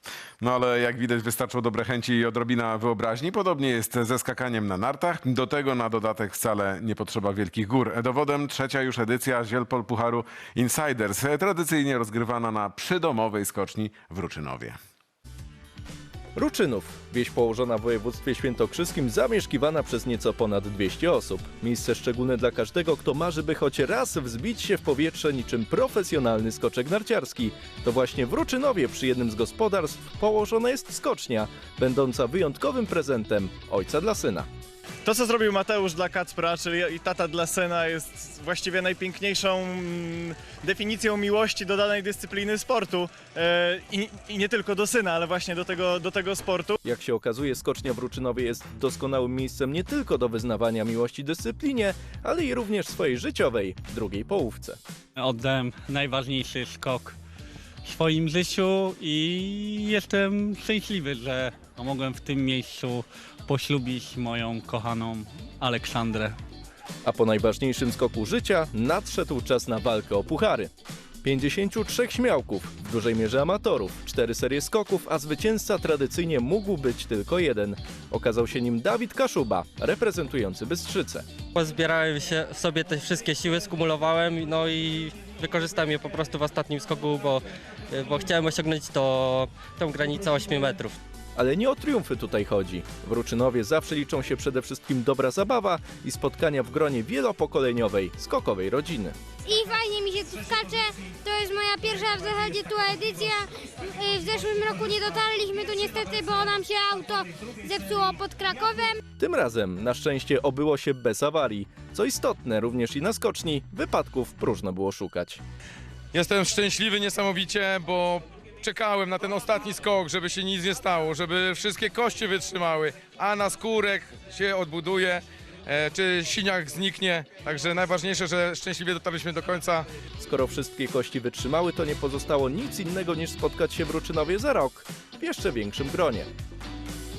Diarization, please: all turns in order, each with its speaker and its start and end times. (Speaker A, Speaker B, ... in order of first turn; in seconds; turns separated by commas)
Speaker A: 0.4-14.8, Speaker B: 16.4-34.5, Speaker C: 35.0-46.8, Speaker B: 46.8-54.8, Speaker D: 55.2-57.2, Speaker D: 57.8-66.4, Speaker B: 67.0-70.7, Speaker B: 71.2-81.2, Speaker E: 81.5-91.0, Speaker B: 91.3-99.1, Speaker F: 99.4-109.0, Speaker B: 109.2-115.4, Speaker G: 116.1-129.8, Speaker B: 130.2-136.3